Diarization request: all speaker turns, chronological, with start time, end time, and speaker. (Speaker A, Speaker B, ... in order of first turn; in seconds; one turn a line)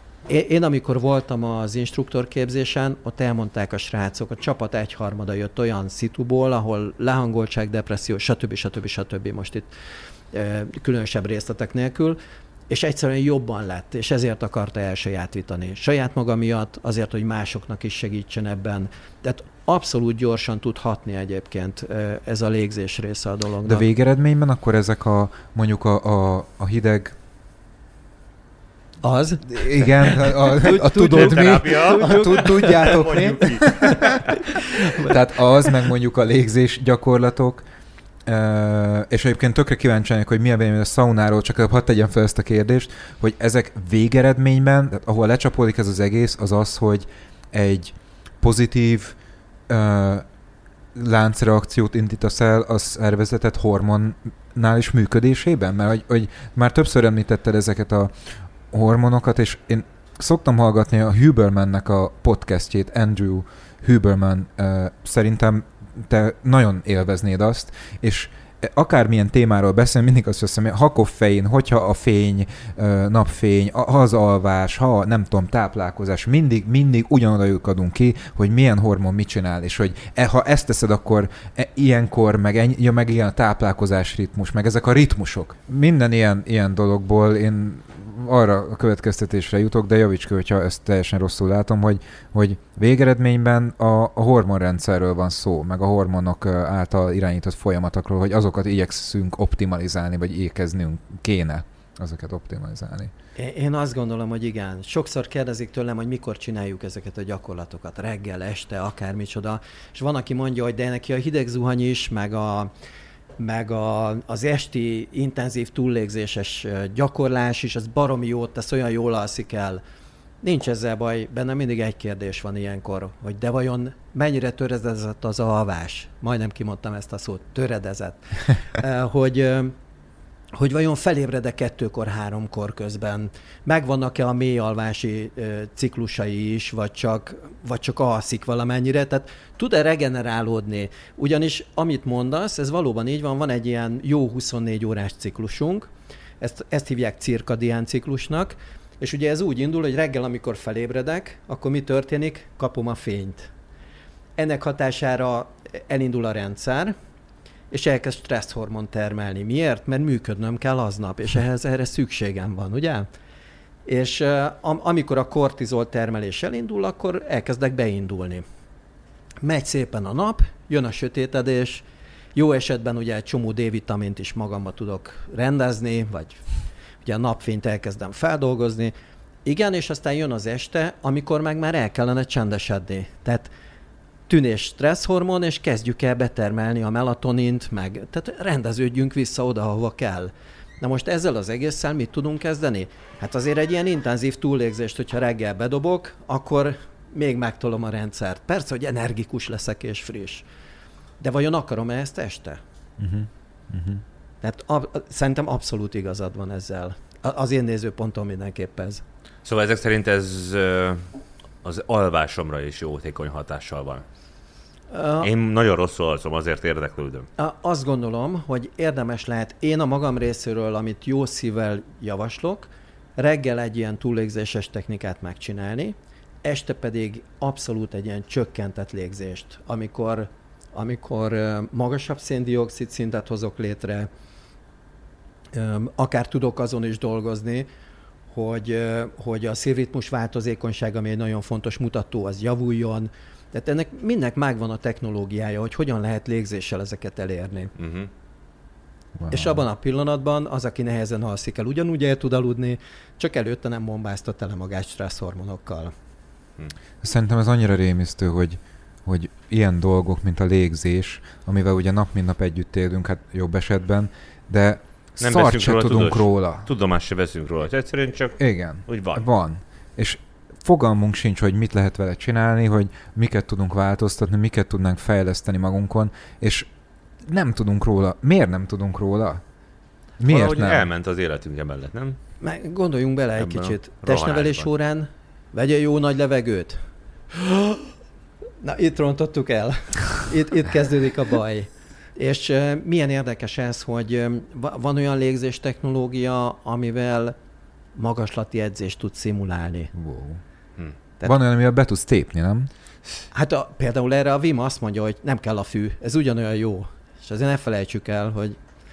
Speaker A: 0.3-9.7
Speaker A: 10.3-12.2
Speaker A: 12.7-23.9
Speaker B: 23.6-27.1
Speaker A: 29.0-35.1
Speaker B: 29.5-34.2
Speaker C: 31.1-34.2
Speaker B: 35.0-37.6
Speaker B: 38.3-49.2
Speaker B: 49.7-50.2
Speaker B: 51.0-58.1
Speaker B: 58.7-103.1
Speaker A: 103.4-112.7
Speaker A: 113.4-119.8
Speaker A: 120.4-129.8
Speaker A: 130.6-145.9
Speaker A: 146.4-153.5
Speaker A: 154.4-156.9
Speaker A: 157.7-163.1
Speaker A: 163.9-168.4
Speaker A: 169.4-171.8
Speaker A: 172.3-176.4
Speaker A: 177.1-178.9
Speaker A: 179.4-183.5
Speaker A: 184.3-200.5
Speaker A: 201.2-202.6
Speaker B: 203.0-204.0
Speaker A: 204.4-209.0
Speaker C: 209.4-211.0
Speaker C: 211.6-214.1
Speaker A: 214.9-215.3
Speaker C: 215.2-217.3
Speaker A: 217.4-234.1
Speaker A: 235.5-237.7
Speaker A: 238.3-247.7
Speaker C: 247.8-248.1
Speaker B: 249.2-249.6
Speaker A: 249.3-255.9
Speaker B: 257.0-266.7
Speaker C: 265.2-269.3
Speaker B: 268.4-276.7
Speaker B: 277.2-279.4
Speaker B: 280.2-280.9
Speaker C: 280.3-282.2
Speaker A: 282.4-286.8
Speaker C: 283.4-284.7
Speaker A: 287.3-287.9
Speaker A: 288.6-297.4
Speaker A: 298.0-299.9
Speaker B: 299.9-300.4
Speaker B: 301.2-302.7
Speaker A: 303.3-308.6